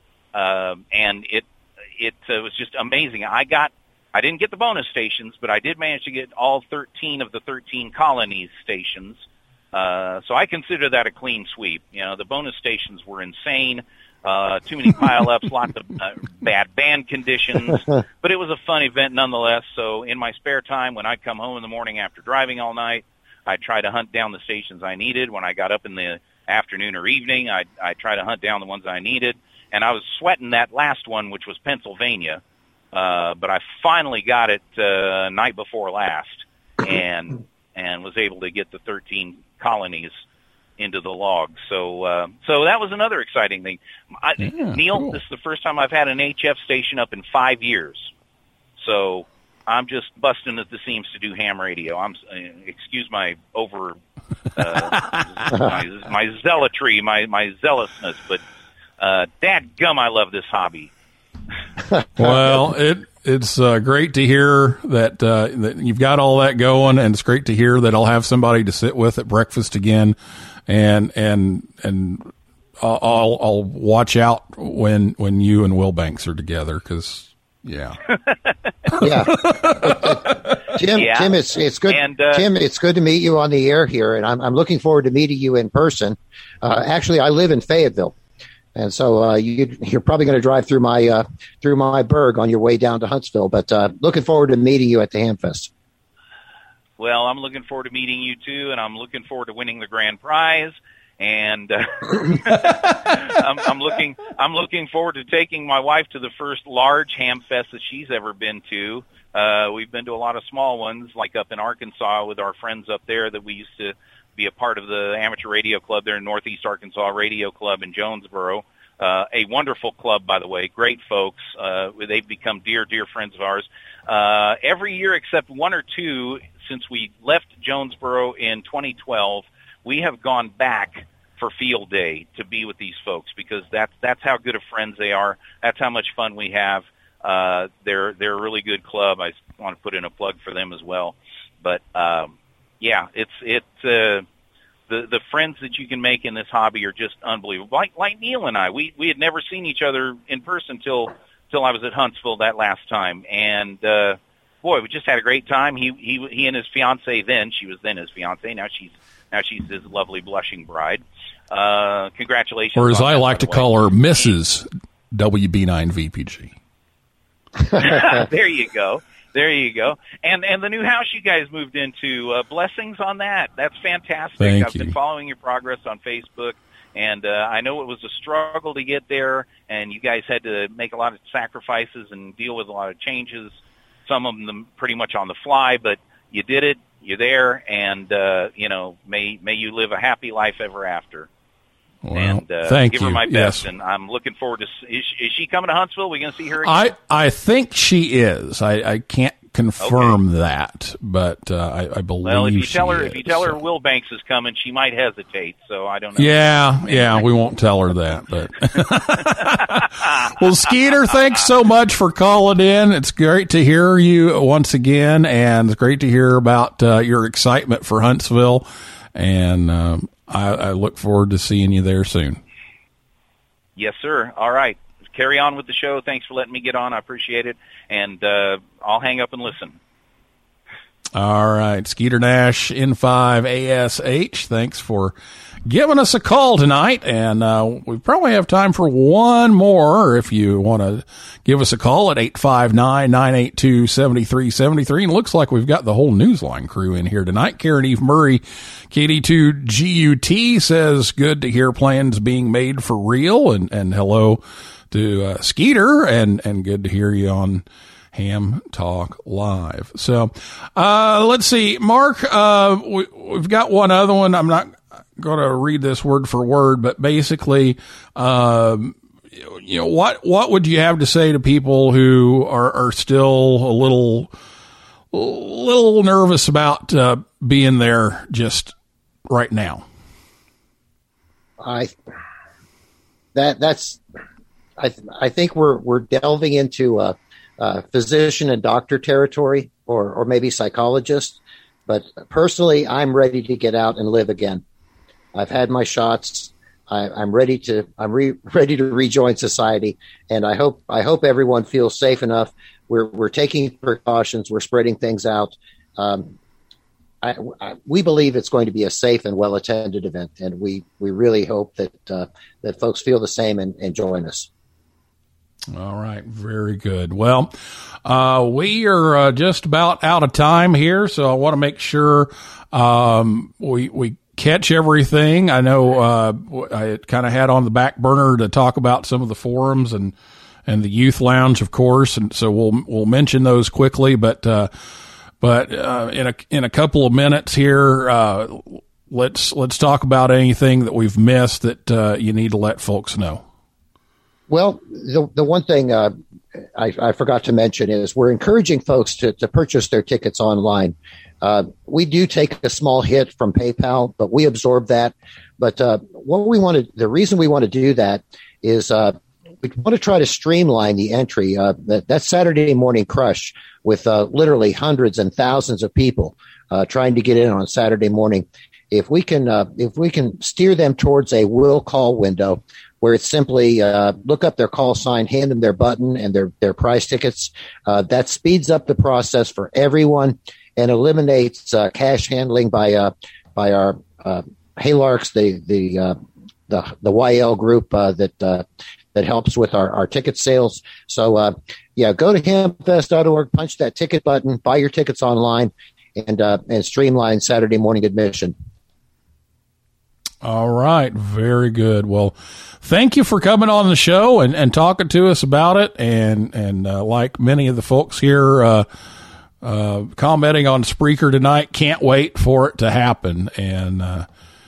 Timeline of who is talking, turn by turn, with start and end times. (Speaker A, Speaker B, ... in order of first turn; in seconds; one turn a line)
Speaker A: 0.3-32.4
Speaker A: 32.9-40.2
Speaker A: 40.8-48.1
Speaker B: 44.4-45.2
Speaker A: 48.8-54.0
Speaker A: 54.5-58.4
Speaker A: 59.0-60.9
Speaker B: 62.2-70.2
Speaker B: 70.7-78.0
Speaker B: 79.0-80.3
Speaker C: 79.0-88.1
Speaker A: 80.9-82.5
Speaker C: 88.7-95.7
Speaker A: 97.0-144.2
Speaker A: 144.9-164.3
Speaker B: 162.7-166.5
Speaker A: 167.7-191.3
Speaker B: 174.4-174.9
Speaker B: 192.0-193.7
Speaker A: 192.1-196.9
Speaker B: 196.6-203.6
Speaker A: 199.8-200.2
Speaker A: 202.2-207.4
Speaker B: 206.2-222.4
Speaker A: 209.5-210.1
Speaker A: 211.1-211.4
Speaker A: 223.8-229.8
Speaker B: 231.1-235.1
Speaker B: 235.7-274.3
Speaker B: 275.1-278.7
Speaker B: 279.3-279.8
Speaker C: 281.6-281.9
Speaker C: 283.3-284.0
Speaker C: 284.8-294.6
Speaker C: 295.3-306.3
Speaker C: 307.2-314.5
Speaker B: 315.7-317.5
Speaker B: 318.0-330.1
Speaker B: 330.7-334.7
Speaker B: 335.4-343.4
Speaker C: 344.5-346.1
Speaker C: 346.7-386.1
Speaker C: 386.7-398.5
Speaker B: 400.4-408.9
Speaker B: 409.6-414.3